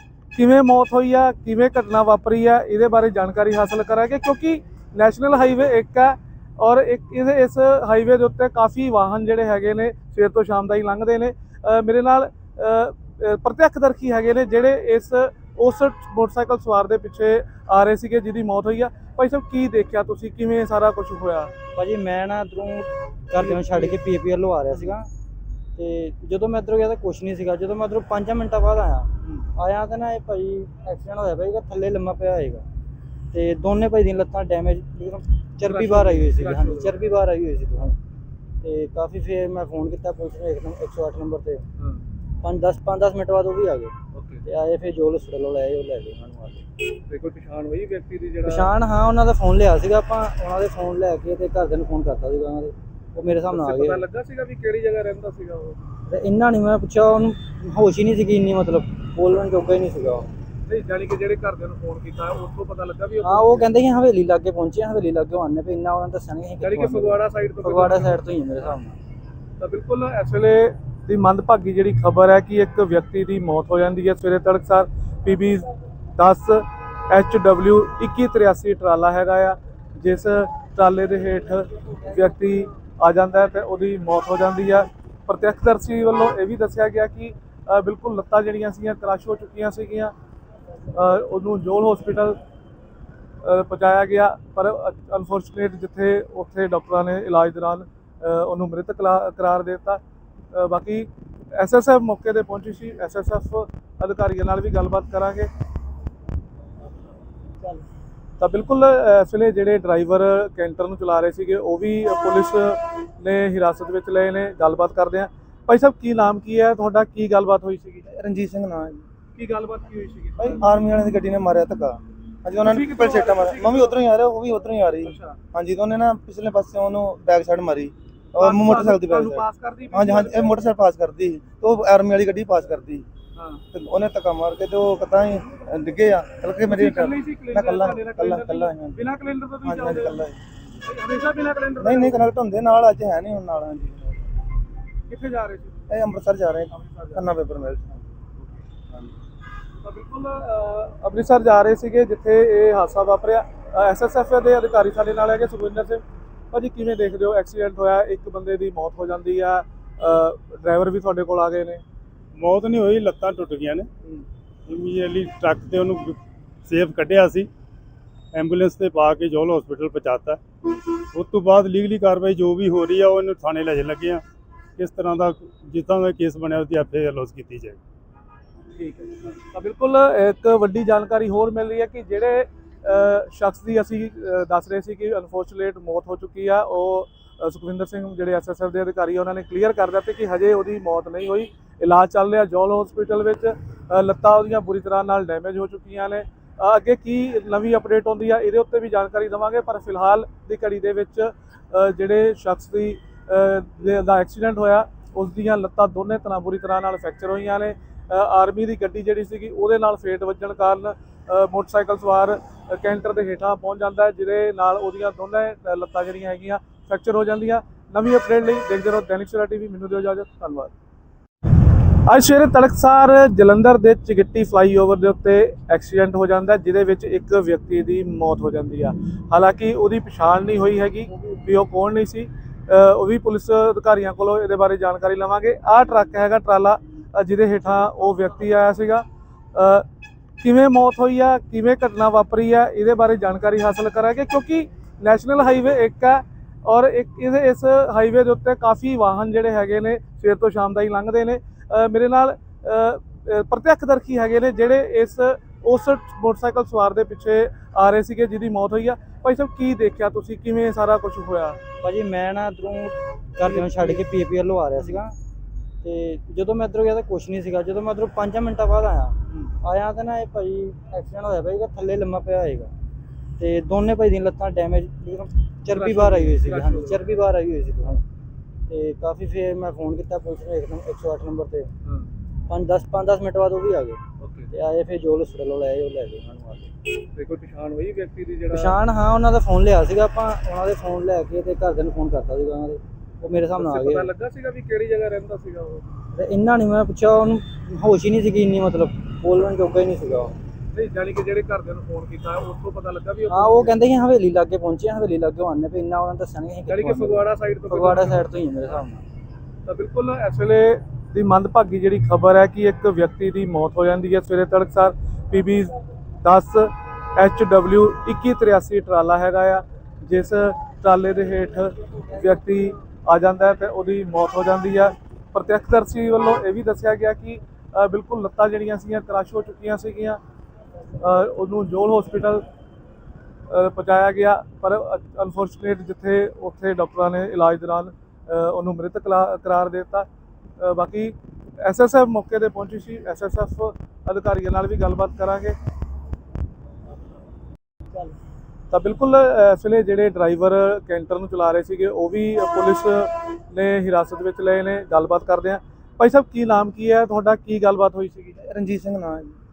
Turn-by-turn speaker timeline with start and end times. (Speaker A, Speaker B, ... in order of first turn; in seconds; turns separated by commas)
Speaker A: 0.3-21.5, Speaker B: 21.8-25.1, Speaker A: 23.3-24.0, Speaker B: 25.8-32.6, Speaker B: 33.3-38.0, Speaker A: 35.6-37.1, Speaker B: 38.6-41.6, Speaker A: 41.8-42.0, Speaker B: 42.4-43.9, Speaker A: 44.1-44.4, Speaker B: 44.4-46.7, Speaker A: 47.1-48.7, Speaker B: 48.4-54.0, Speaker A: 53.5-55.8, Speaker B: 56.1-60.3, Speaker A: 60.7-63.7, Speaker B: 63.2-69.0, Speaker A: 66.6-68.2, Speaker A: 69.6-90.1, Speaker A: 90.9-92.4, Speaker A: 93.4-100.0, Speaker A: 100.5-105.5, Speaker A: 108.4-118.0, Speaker C: 118.1-119.0, Speaker A: 119.3-120.6, Speaker C: 120.4-133.0, Speaker A: 122.6-124.0, Speaker A: 125.0-125.4, Speaker A: 128.4-130.6, Speaker A: 133.3-133.6, Speaker C: 133.7-139.0, Speaker A: 136.7-140.2, Speaker C: 139.6-140.4, Speaker A: 140.8-142.2, Speaker C: 141.8-144.2, Speaker A: 145.1-145.9, Speaker C: 145.9-148.1, Speaker A: 146.7-147.3, Speaker A: 149.8-161.8, Speaker D: 162.4-163.9, Speaker D: 164.7-167.5, Speaker D: 168.3-170.4, Speaker D: 171.1-174.2, Speaker D: 174.8-177.8, Speaker A: 178.7-220.7, Speaker A: 222.0-239.8, Speaker A: 240.4-261.6, Speaker B: 261.8-265.1, Speaker A: 263.4-264.0, Speaker B: 265.8-272.7, Speaker B: 273.4-278.0, Speaker A: 275.7-277.0, Speaker B: 278.7-281.7, Speaker B: 282.5-284.0, Speaker A: 284.2-284.5, Speaker B: 284.5-286.7, Speaker A: 287.1-288.8, Speaker B: 288.5-294.1, Speaker A: 293.6-295.9, Speaker B: 296.1-300.4, Speaker A: 300.7-303.7, Speaker B: 303.3-309.0, Speaker A: 306.7-308.3, Speaker A: 309.6-330.2, Speaker A: 331.0-332.4, Speaker A: 333.5-340.1, Speaker A: 340.6-345.6, Speaker A: 348.7-358.4, Speaker C: 358.4-359.4